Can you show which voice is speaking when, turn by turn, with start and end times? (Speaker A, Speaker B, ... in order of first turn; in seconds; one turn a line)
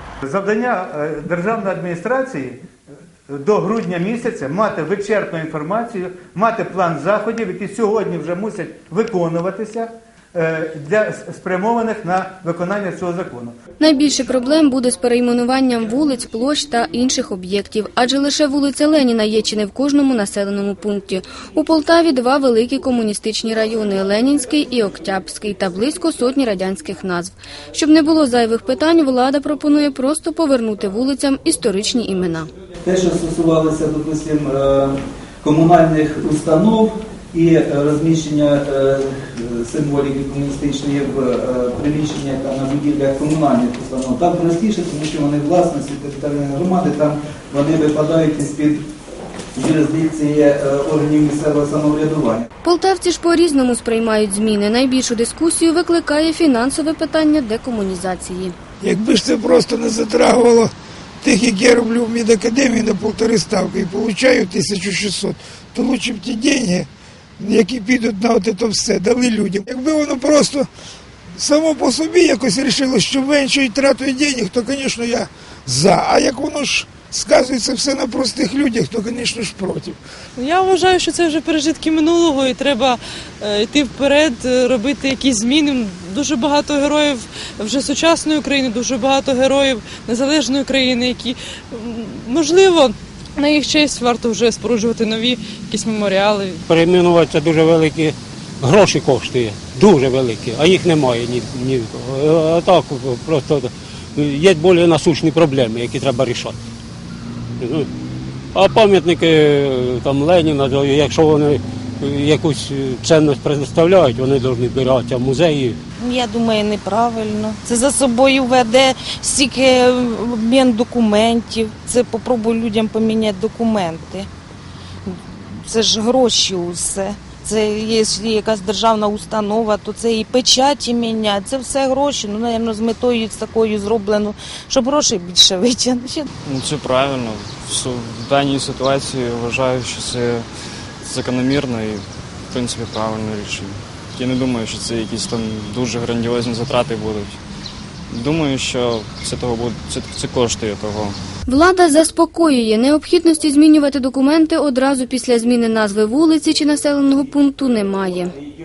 Speaker A: 0.3-2.5
Speaker A: 3.3-13.5
Speaker B: 13.8-32.5
Speaker C: 32.8-48.8
Speaker C: 49.5-52.5
Speaker B: 52.6-58.5
Speaker D: 58.8-70.7
Speaker D: 71.3-80.0
Speaker E: 80.4-96.6
Speaker F: 96.7-106.5
Speaker F: 107.6-107.9
Speaker F: 108.5-115.8
Speaker G: 116.0-124.3
Speaker G: 125.0-136.3
Speaker H: 136.4-140.4
Speaker H: 141.0-147.4
Speaker H: 148.1-151.2
Speaker B: 151.5-158.3